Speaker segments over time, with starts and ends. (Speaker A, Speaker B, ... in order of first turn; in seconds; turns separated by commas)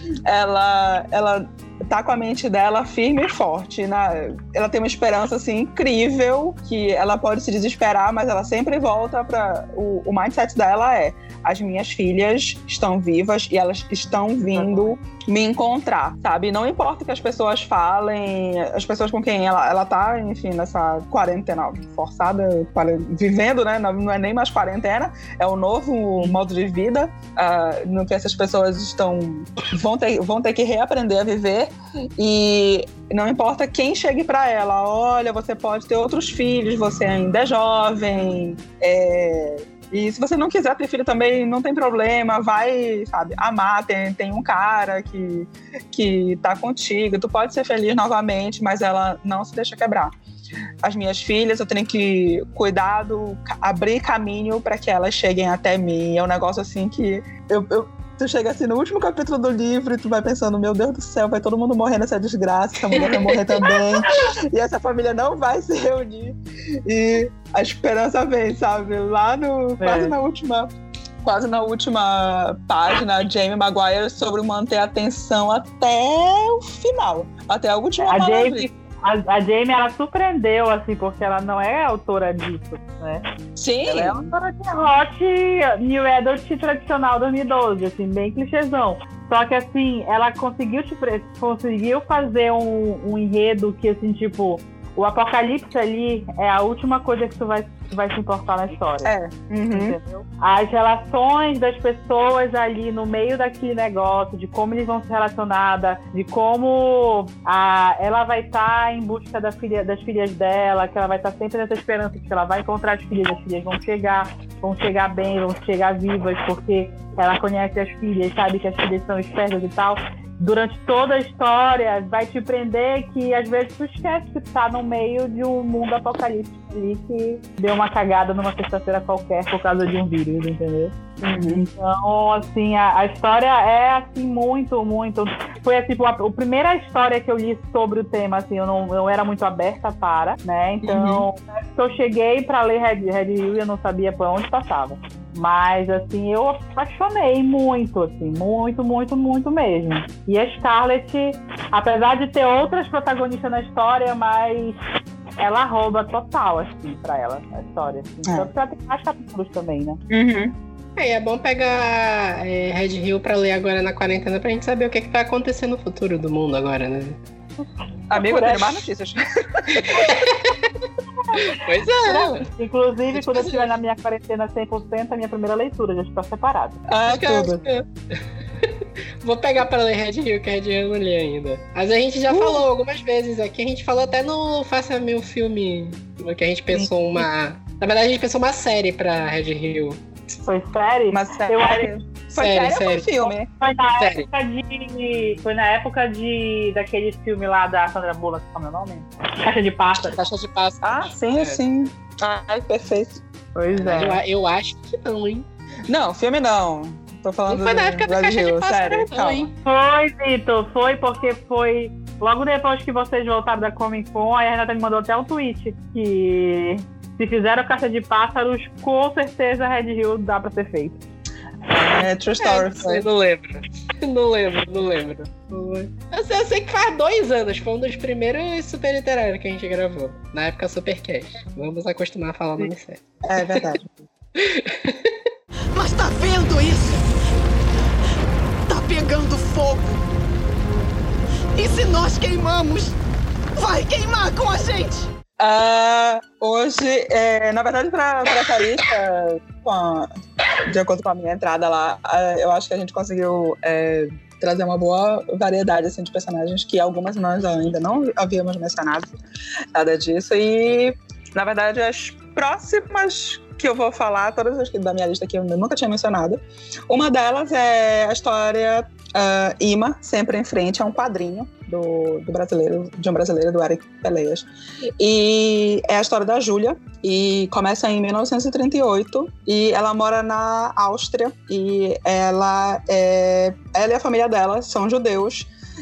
Speaker A: 0.2-50.1, Speaker B: 14.3-14.9, Speaker A: 50.8-70.7, Speaker B: 69.8-70.1, Speaker A: 71.2-78.7, Speaker B: 78.1-83.2, Speaker A: 83.5-84.3, Speaker B: 83.8-99.1, Speaker A: 99.0-100.0, Speaker B: 99.7-130.9, Speaker A: 131.2-131.7, Speaker B: 131.5-154.8, Speaker A: 140.8-141.2, Speaker B: 155.4-160.0, Speaker A: 160.1-160.6, Speaker C: 161.0-167.2, Speaker A: 168.1-170.1, Speaker B: 168.1-168.8, Speaker C: 169.8-172.4, Speaker B: 171.9-176.8, Speaker C: 173.2-173.6, Speaker A: 176.9-177.6, Speaker C: 177.1-190.0, Speaker A: 182.3-182.6, Speaker A: 186.7-187.3, Speaker B: 190.4-191.9, Speaker A: 191.1-193.5, Speaker C: 192.3-193.1, Speaker B: 193.6-200.2, Speaker C: 194.0-194.3, Speaker C: 200.1-201.6, Speaker A: 200.8-203.2, Speaker B: 203.5-204.2, Speaker C: 203.7-205.5, Speaker A: 205.9-209.5, Speaker C: 207.5-209.5, Speaker B: 209.6-221.0, Speaker A: 221.7-223.0, Speaker C: 222.4-233.8, Speaker A: 233.2-234.0, Speaker C: 234.4-235.2, Speaker D: 235.7-237.9, Speaker D: 238.7-240.0, Speaker D: 241.5-243.0, Speaker D: 243.6-245.1, Speaker A: 245.4-250.1, Speaker A: 250.6-259.2, Speaker A: 259.7-285.5